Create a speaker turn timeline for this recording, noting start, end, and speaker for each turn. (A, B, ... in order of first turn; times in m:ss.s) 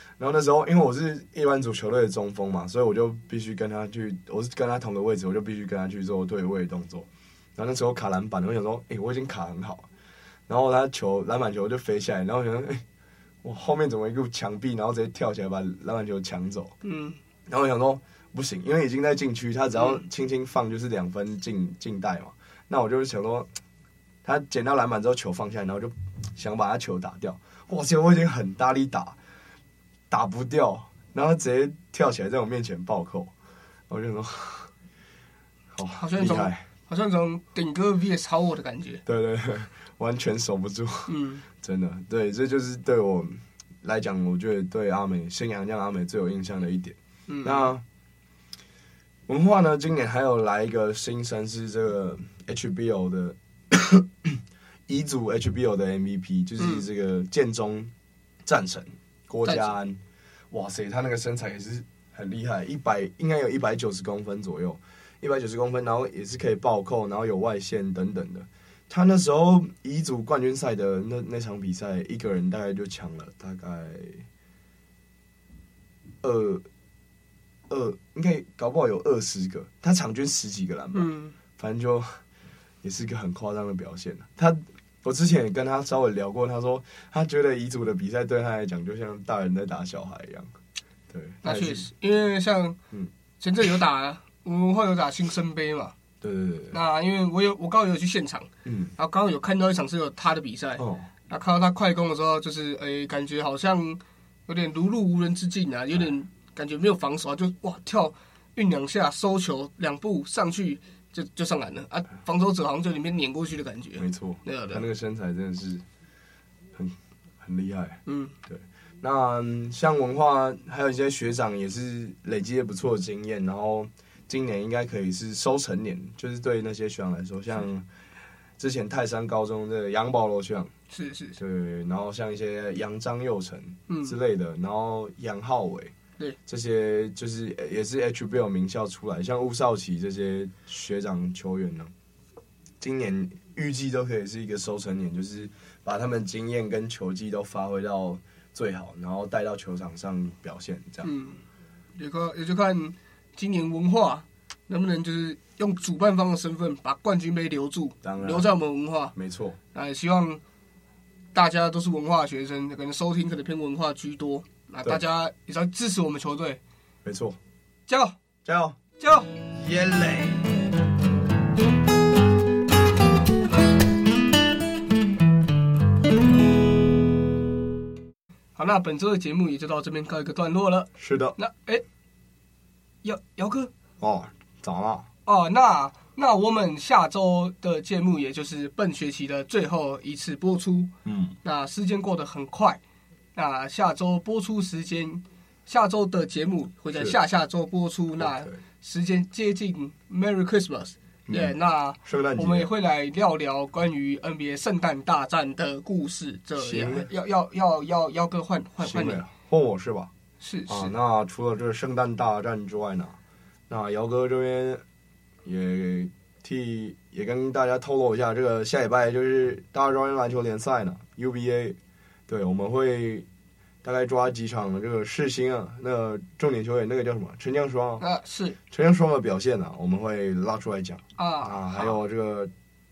0:00.2-0:09.9 A
0:10.5-0:12.8 A
0:13.4-0:16.8 A
0:16.8-0:17.2 B
0:17.5-0:23.5 A
0:24.2-0:29.2 A
0:30.1-0:33.3 A
0:33.9-0:34.7 A
0:35.7-0:36.7 A
0:36.0-0:39.0 B
0:39.1-0:47.8 A
0:41.1-0:41.4 B
0:47.3-0:47.7 B
0:49.3-0:57.9 A
0:56.6-0:56.8 B
0:58.5-1:00.0 A
0:59.4-0:59.7 B
1:00.5-1:14.2 A
1:16.2-1:16.6 A
1:17.7-1:22.2 A
1:20.9-1:21.4 B
1:22.8-1:30.5 A
1:31.1-1:31.9 A
1:31.4-1:32.8 B
1:33.4-1:36.0 B
1:36.2-1:36.8 A
1:36.7-1:54.8 B
1:38.6-1:38.9 A
1:40.8-1:41.1 A
1:54.0-1:55.8 A
1:56.7-2:07.9 A
1:58.1-1:58.4 B
2:08.6-2:10.7 A
2:10.9-2:11.4 B
2:11.4-2:15.9 A
2:13.9-2:14.2 B
2:16.5-2:21.9 A
2:22.8-2:31.1 A
2:31.0-2:31.4 B
2:32.0-2:39.2 B
2:38.0-2:38.5 A
2:39.2-2:39.6 A
2:39.7-2:40.4 B
2:41.3-2:46.6 B
2:47.0-2:47.4 A
2:47.9-2:48.2 B
2:48.4-2:48.8 A
2:49.0-2:49.3 B
2:49.5-2:50.5 A
2:58.6-3:01.8 B
3:01.0-3:01.4 A
3:03.0-3:03.7 B
3:04.0-3:05.1 A
3:05.3-3:10.9 B
3:11.0-3:11.4 A
3:11.4-3:12.8 B
3:13.4-3:29.2 B
3:18.2-3:18.6 A
3:21.3-3:22.7 A
3:26.6-3:27.1 A
3:28.8-3:30.1 A
3:30.4-3:30.9 B
3:30.7-3:33.2 A
3:33.7-3:34.8 A
3:35.4-3:43.3 A
3:43.8-3:48.0 A
3:48.0-3:48.6 B
3:48.7-3:52.5 A
3:51.2-3:52.0 B